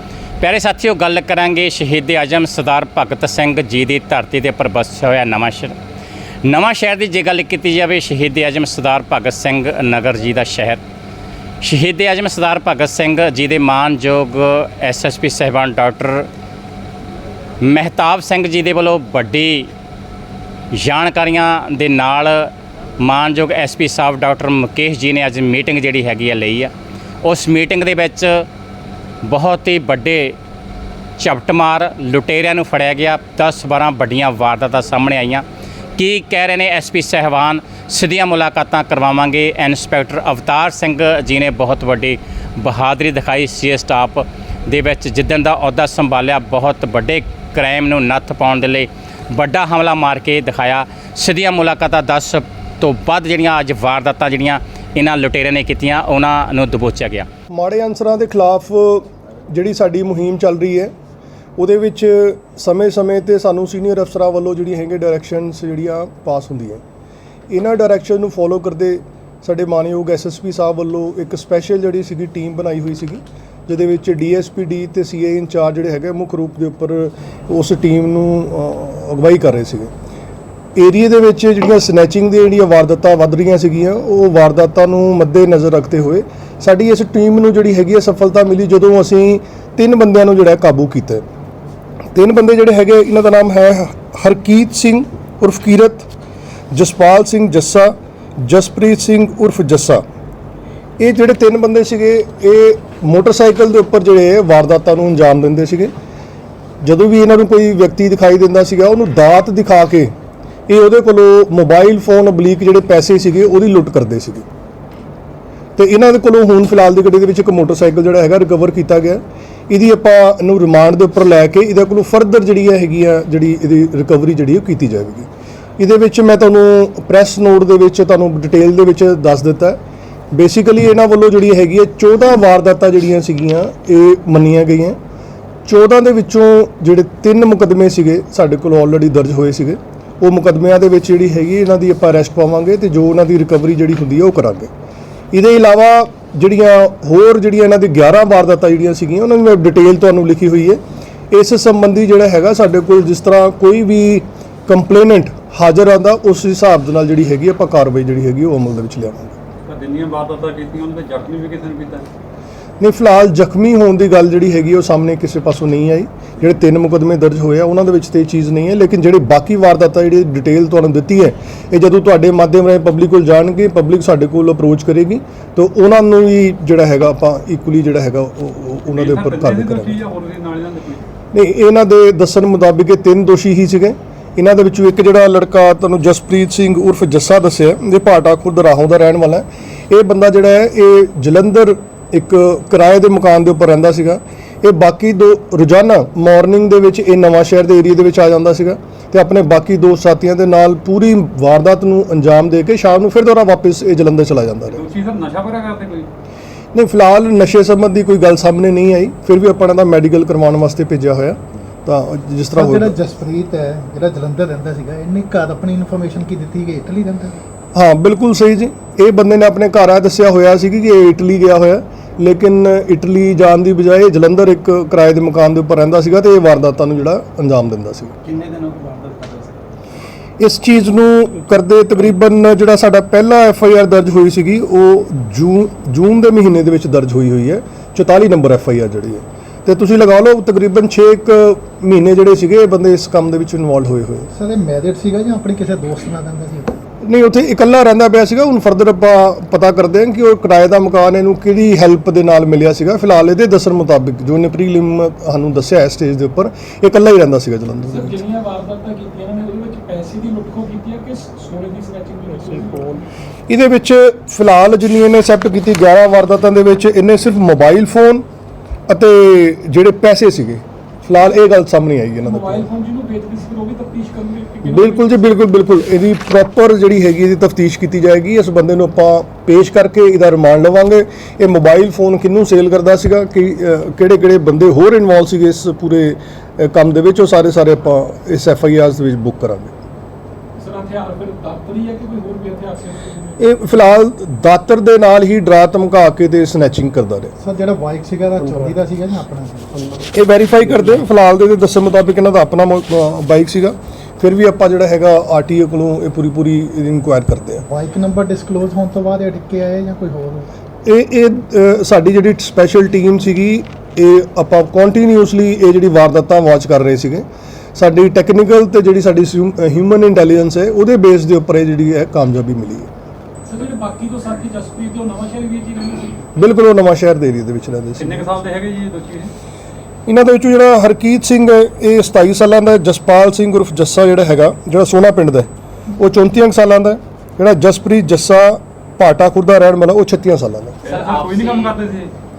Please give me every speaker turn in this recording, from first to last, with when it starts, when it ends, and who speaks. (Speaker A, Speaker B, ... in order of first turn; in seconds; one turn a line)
Speaker A: 0.4-5.7
Speaker A: 6.4-10.8
Speaker A: 11.6-16.3
Speaker A: 17.6-19.7
Speaker A: 20.7-26.7
Speaker A: 27.2-28.4
Speaker A: 29.2-30.4
Speaker A: 31.2-35.4
Speaker A: 36.0-57.3
Speaker B: 57.5-60.9
Speaker B: 61.6-66.8
Speaker B: 67.5-79.9
Speaker B: 80.8-91.2
Speaker B: 92.1-96.1
Speaker B: 96.7-100.0
Speaker B: 101.0-105.9
Speaker B: 106.8-110.1
Speaker B: 110.7-114.4
Speaker B: 115.8-129.8
Speaker B: 130.3-135.0
Speaker B: 135.7-144.7
Speaker B: 145.3-159.4
Speaker C: 159.7-162.1
Speaker B: 162.8-180.0
Speaker C: 178.9-181.0
Speaker B: 181.3-204.8
Speaker C: 204.7-206.1
Speaker B: 206.7-213.0
Speaker D: 212.5-217.4
Speaker B: 217.7-228.1
Speaker C: 228.2-229.6
Speaker B: 230.4-244.3
Speaker D: 244.3-246.8
Speaker B: 247.0-258.2
Speaker E: 257.9-263.0
Speaker B: 263.5-268.2
Speaker B: 268.9-272.7
Speaker E: 272.2-275.2
Speaker B: 274.6-289.7
Speaker E: 290.6-293.4
Speaker B: 293.4-297.3
Speaker D: 297.4-299.8
Speaker B: 300.1-307.6
Speaker D: 307.6-310.5
Speaker B: 310.9-322.9
Speaker E: 323.4-326.3
Speaker B: 326.4-328.3
Speaker C: 328.0-329.3
Speaker B: 330.1-340.8
Speaker C: 340.8-342.1
Speaker E: 340.9-341.2
Speaker A: 340.9-341.8